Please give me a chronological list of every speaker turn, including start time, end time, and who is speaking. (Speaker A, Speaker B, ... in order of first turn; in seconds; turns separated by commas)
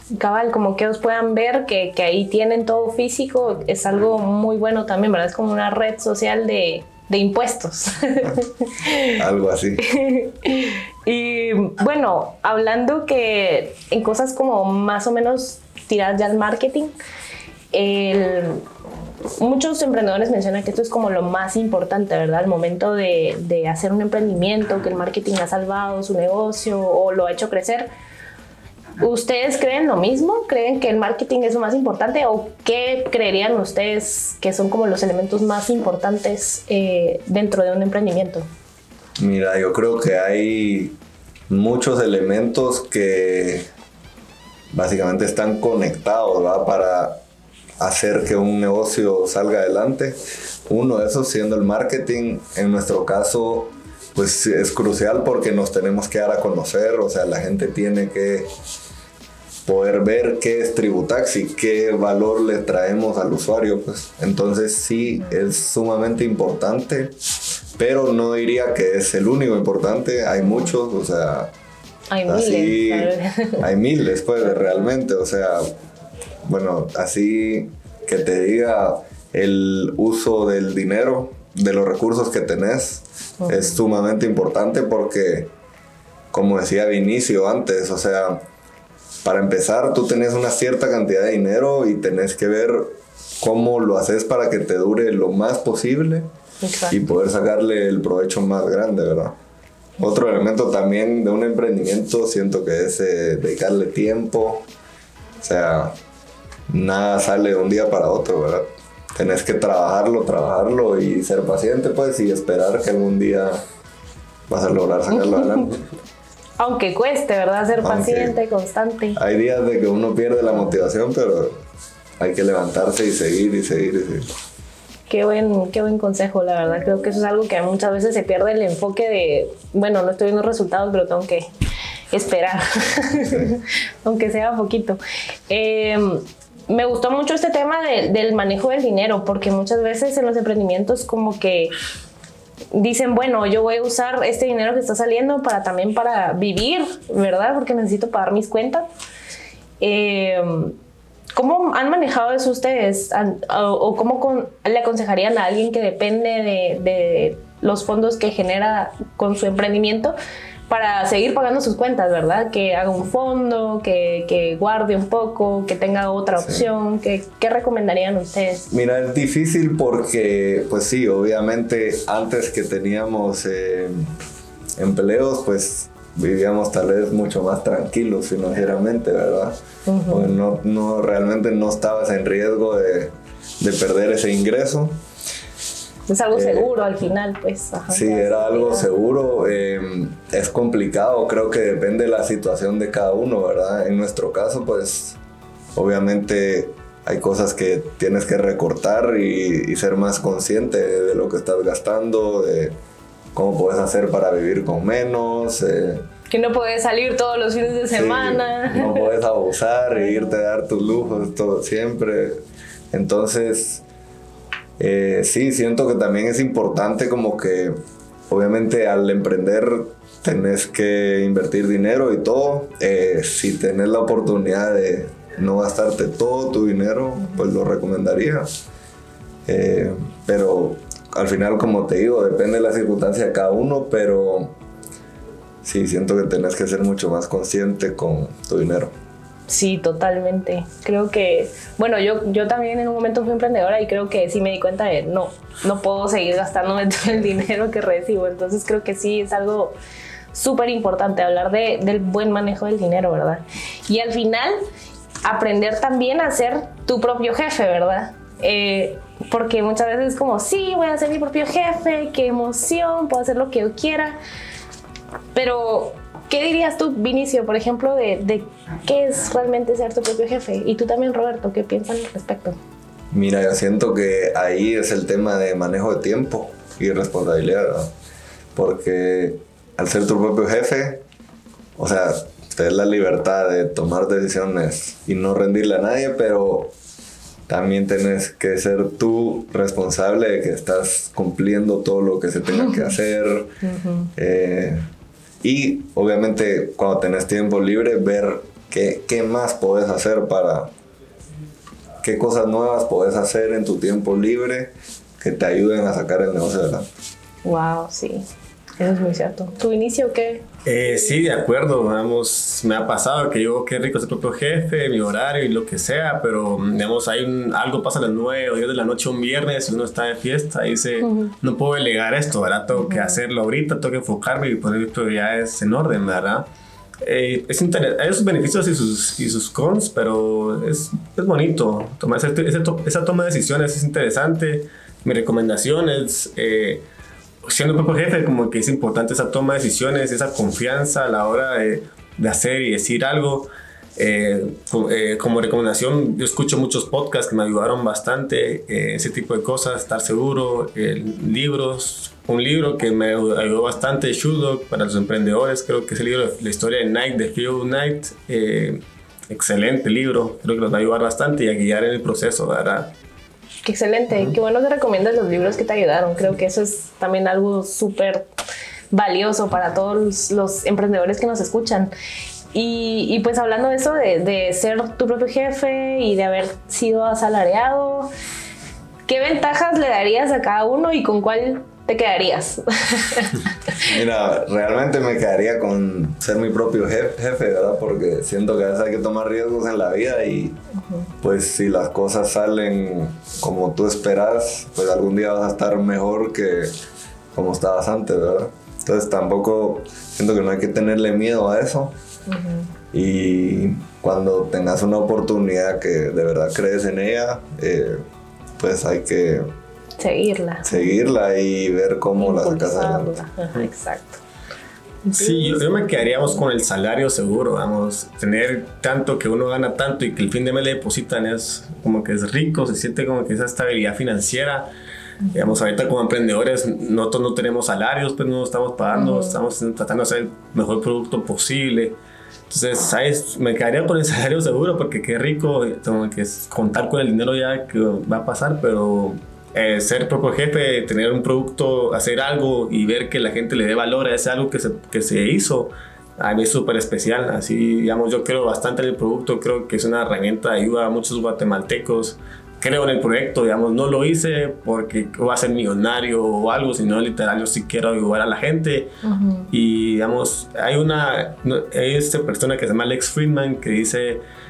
Speaker A: 0.2-9.2, Speaker B: 9.2-9.8, Speaker A: 9.9-16.9, Speaker A: 17.7-18.6, Speaker A: 19.4-27.9, Speaker A: 29.0-38.5, Speaker B: 39.2-41.0, Speaker B: 41.5-43.7, Speaker B: 44.7-47.2, Speaker B: 47.8-58.5, Speaker B: 59.7-67.2, Speaker B: 67.8-71.5, Speaker A: 72.1-73.7, Speaker B: 72.3-75.7, Speaker B: 76.5-85.5, Speaker A: 83.4-83.8, Speaker B: 86.3-88.4, Speaker B: 89.2-96.3, Speaker A: 96.6-97.0, Speaker B: 96.9-99.3, Speaker B: 100.0-104.7, Speaker B: 105.4-106.0, Speaker B: 106.7-113.6, Speaker B: 114.5-115.8, Speaker A: 115.1-115.7, Speaker A: 116.6-119.2, Speaker B: 117.8-118.4, Speaker B: 119.2-121.6, Speaker B: 122.2-124.3, Speaker A: 125.1-131.5, Speaker A: 132.1-141.7, Speaker A: 142.7-148.9, Speaker A: 149.8-150.8, Speaker A: 151.3-160.2, Speaker A: 160.7-168.7, Speaker B: 166.4-166.7, Speaker B: 168.7-174.1, Speaker B: 174.8-179.6, Speaker A: 179.9-180.3, Speaker B: 180.1-185.0, Speaker A: 186.1-188.9, Speaker B: 186.3-186.7, Speaker B: 187.9-195.2, Speaker B: 195.8-202.8, Speaker B: 203.3-206.0, Speaker A: 206.3-209.1, Speaker B: 207.9-213.8, Speaker A: 210.0-210.4, Speaker B: 214.8-217.8, Speaker B: 218.3-228.5, Speaker B: 229.5-234.5, Speaker B: 235.6-238.9, Speaker A: 239.5-249.8, Speaker A: 250.3-254.6, Speaker A: 255.2-264.2, Speaker A: 265.3-272.6, Speaker B: 273.1-277.9, Speaker B: 278.6-281.0, Speaker B: 281.8-286.7, Speaker B: 287.5-293.5, Speaker A: 293.6-294.1, Speaker B: 294.2-294.8, Speaker B: 295.4-300.7, Speaker B: 302.0-306.9, Speaker A: 307.4-308.3, Speaker A: 308.8-310.9, Speaker C: 310.6-326.5, Speaker A: 321.0-321.3, Speaker A: 322.7-323.2, Speaker C: 327.0-336.9, Speaker C: 337.4-362.9, Speaker A: 363.6-368.3, Speaker A: 368.9-371.9, Speaker A: 372.5-378.1, Speaker A: 379.1-383.9, Speaker B: 383.9-390.6, Speaker B: 391.2-396.7, Speaker B: 397.4-401.9, Speaker A: 402.3-402.7, Speaker B: 402.9-408.0, Speaker B: 408.6-409.5, Speaker A: 410.0-411.0, Speaker B: 410.6-413.2, Speaker A: 412.2-414.2, Speaker A: 415.1-416.4, Speaker C: 415.1-424.7, Speaker A: 425.2-425.5, Speaker C: 425.3-432.0, Speaker A: 428.9-429.4, Speaker C: 432.5-458.9, Speaker A: 459.0-459.5, Speaker C: 459.5-464.2